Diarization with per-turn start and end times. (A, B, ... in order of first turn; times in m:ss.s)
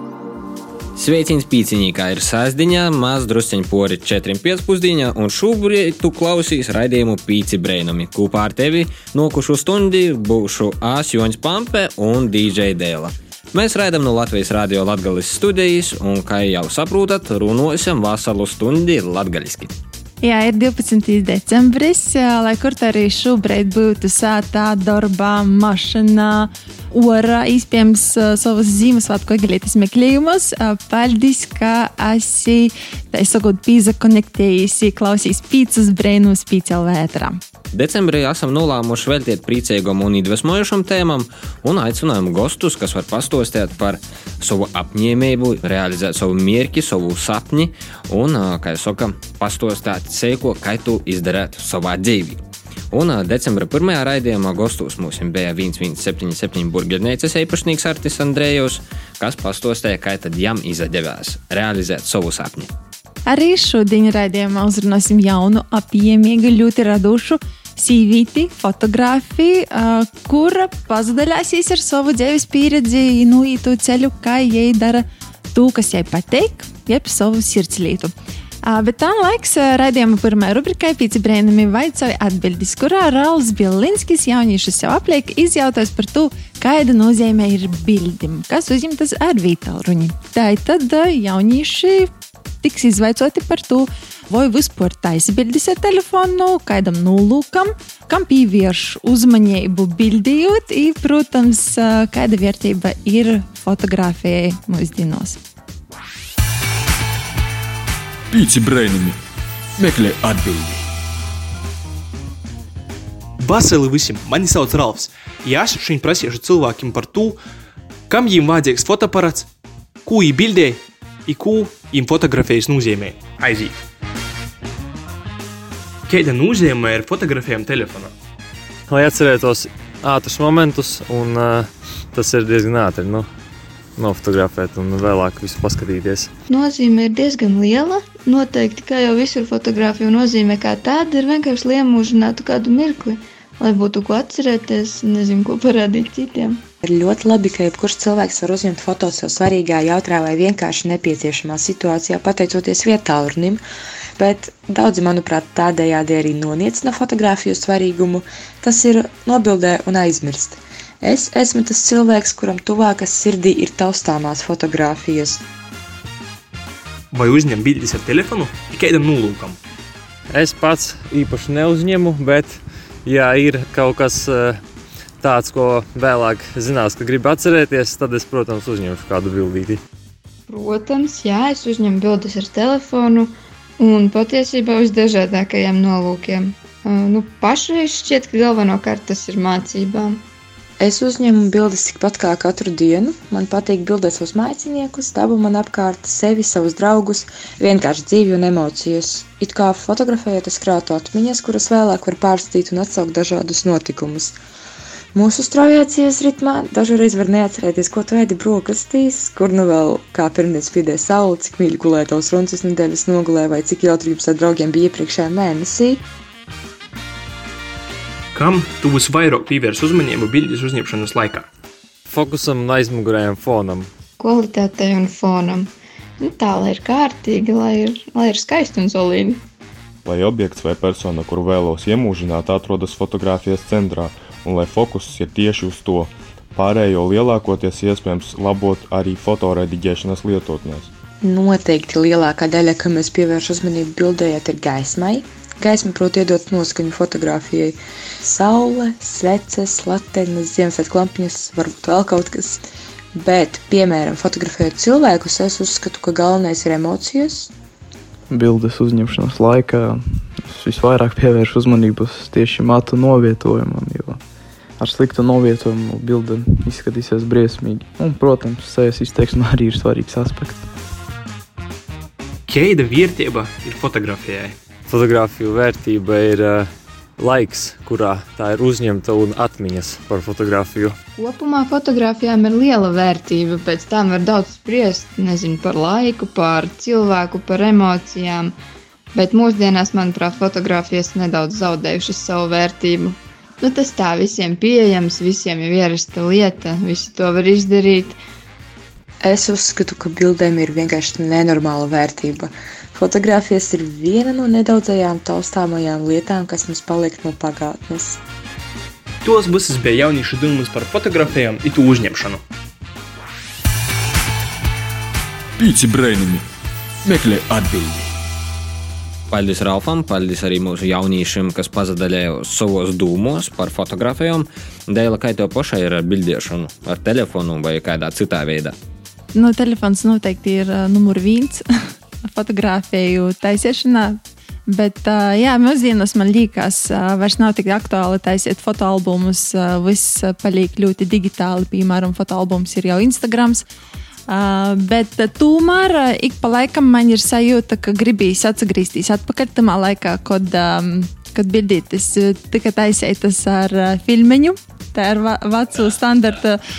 0:01.0-0:19.7 A
0:20.2-0:37.4 B
0:37.7-0:52.4 A
0:52.9-1:02.7 A
1:03.3-1:18.1 B
1:18.6-1:32.1 B
1:32.6-1:45.4 B
1:48.3-1:49.2 C
1:49.8-1:50.8 C
1:53.4-1:57.4 D
1:58.1-1:59.5 D
2:00.0-2:03.7 D
2:06.1-2:08.1 D
2:08.9-2:13.3 E
2:14.0-2:16.3 E
2:16.5-2:26.6 F
2:26.8-2:33.6 G
2:34.2-2:45.4 G
2:47.1-2:49.6 D
2:50.3-2:54.6 E
2:55.2-2:59.8 E
3:00.5-3:10.2 F
3:10.8-3:24.4 G
3:25.1-3:36.0 G
3:38.3-3:41.5 D
3:42.1-3:43.9 E
3:44.2-3:49.4 F
3:50.0-4:00.9 H
4:01.2-4:12.6 G
4:13.2-4:17.5 G
4:18.3-4:24.2 I
4:24.8-4:30.7 I
4:32.5-4:34.6 D
4:34.9-4:41.0 E
4:41.2-4:48.5 F
4:49.1-4:58.2 F
4:59.2-5:08.2 G
5:09.2-5:12.4 D
5:15.6-5:16.4 C
5:17.0-5:18.1 C
5:19.3-5:28.8 A
5:29.3-5:43.6 B
5:44.3-5:56.6 B